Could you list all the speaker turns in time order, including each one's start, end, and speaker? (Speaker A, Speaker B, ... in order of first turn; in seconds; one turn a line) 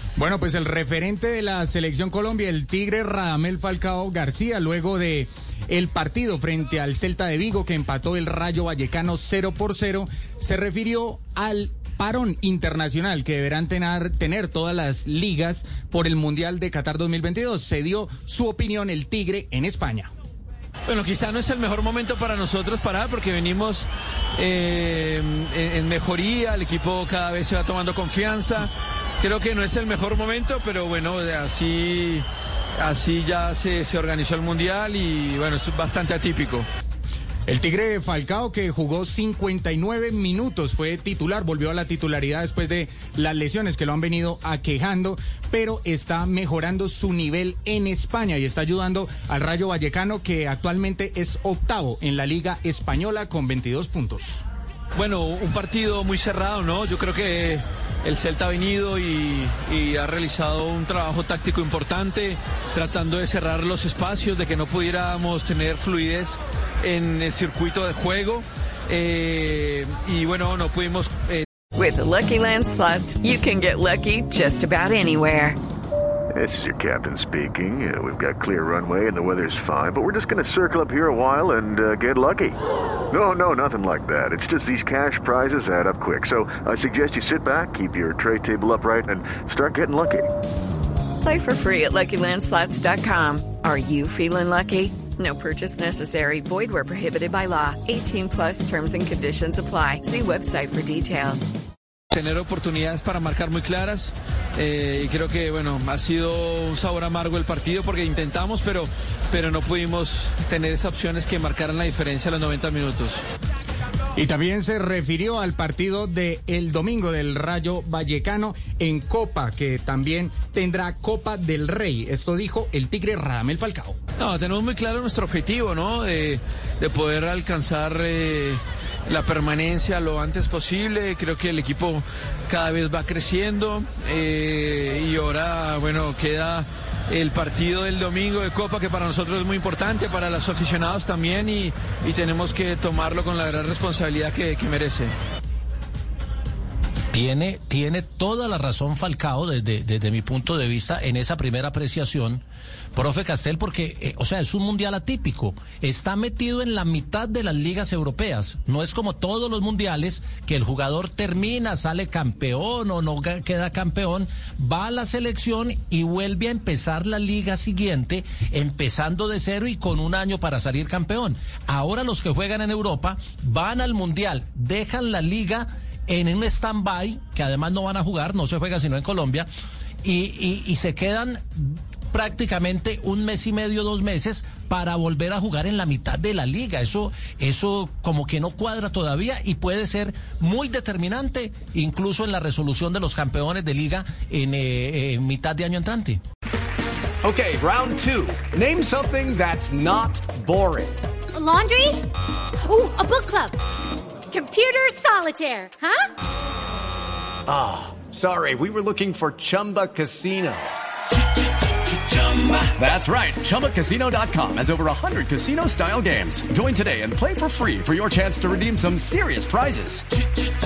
Speaker A: 0.1-20.1
Speaker B: 20.9-28.7
Speaker B: 29.2-32.2
Speaker B: 32.8-36.6
Speaker A: 37.5-54.2
Speaker B: 54.9-71.5
Speaker C: 71.7-75.6
Speaker D: 76.3-82.6
Speaker D: 83.1-90.3
Speaker C: 91.2-101.5
Speaker B: 102.1-113.2
Speaker A: 114.2-124.0
Speaker B: 124.2-145.1
Speaker E: 147.1-179.5
Speaker E: 180.0-196.2
Speaker F: 197.2-201.0
Speaker G: 201.3-202.1
Speaker G: 202.6-203.6
Speaker G: 204.3-206.1
Speaker F: 207.5-210.7
Speaker F: 211.9-220.0